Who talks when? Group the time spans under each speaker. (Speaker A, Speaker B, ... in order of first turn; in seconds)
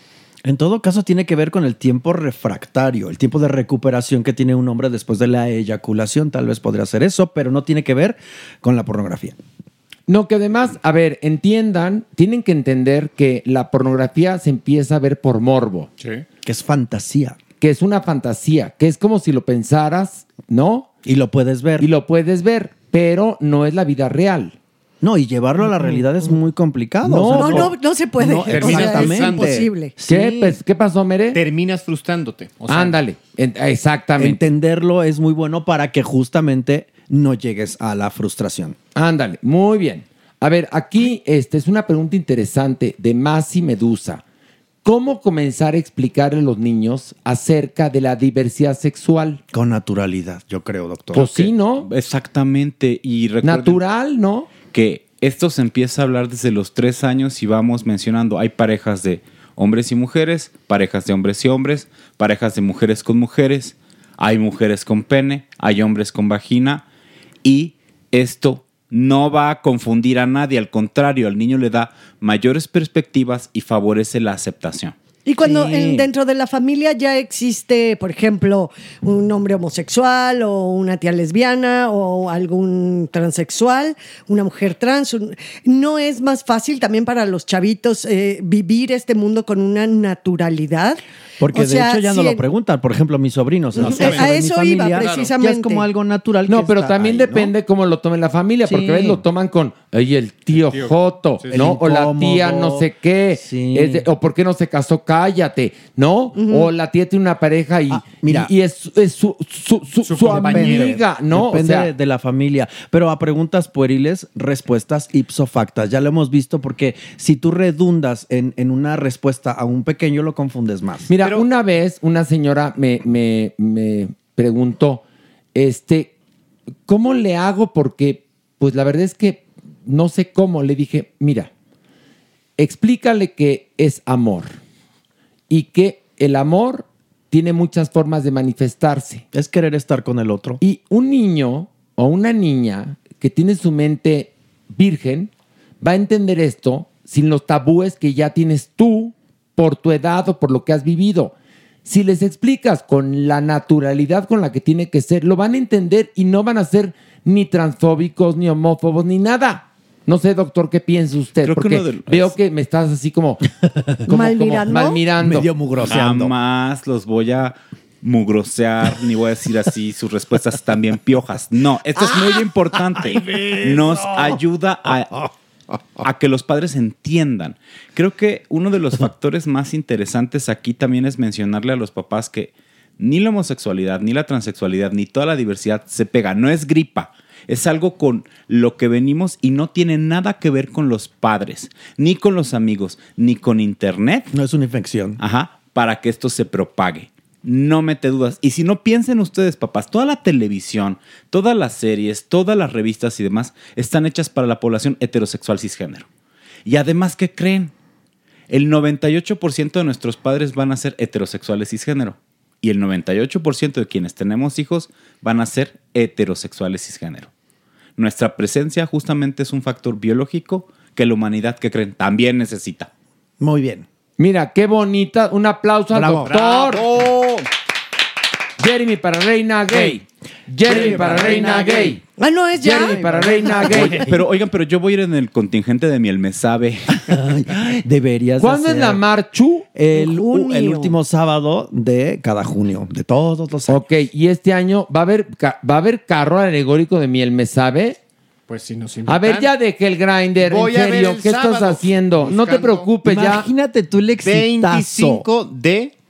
Speaker A: 0.4-9.3, 16.4-17.4, 21.0-21.9, 25.0-30.6, 34.2-38.8, 49.5-51.3, 75.4-76.1, 91.4-97.5, 98.7-99.2, 101.5-104.1, 107.9-108.5, 110.1-121.1, 139.3-140.6, 165.2-166.3, 173.2-174.3, 194.3-195.2, 223.4-223.8, 225.9-226.3, 230.7-231.8, 232.8-234.1, 237.1-239.1, 239.7-243.9, 253.0-255.2
Speaker B: 10.1-15.9, 17.6-20.9, 21.8-24.5, 27.0-27.7, 30.0-31.4, 32.7-34.4, 38.9-44.2, 44.8-49.4, 51.1-51.9, 53.4-54.5, 96.5-111.9, 121.1-125.0, 125.5-126.1, 126.9-131.5, 132.6-134.6, 135.5-139.2, 140.6-145.3, 145.8-151.3, 151.8-163.4, 164.1-165.5, 224.2-226.9, 228.6-232.0, 232.6-234.0, 238.4-239.7, 243.7-248.0, 249.1-253.5
Speaker C: 27.3-29.9, 75.2-91.0, 91.5-92.4, 93.8-95.9, 106.3-106.7, 164.1-165.0, 232.2-233.9, 239.9-241.0
Speaker D: 28.5-29.7, 31.3-33.0, 93.8-94.3, 95.0-95.3, 100.5-101.6, 110.0-111.0, 121.2-121.4, 226.2-227.4, 230.6-231.8, 248.5-249.5, 250.4-252.9, 254.2-255.9
Speaker E: 51.2-53.8, 54.6-66.8, 67.4-75.0, 161.4-162.3, 165.8-175.1, 176.0-194.3, 195.2-206.1, 206.6-207.7, 208.5-217.3, 218.0-222.9, 233.7-237.0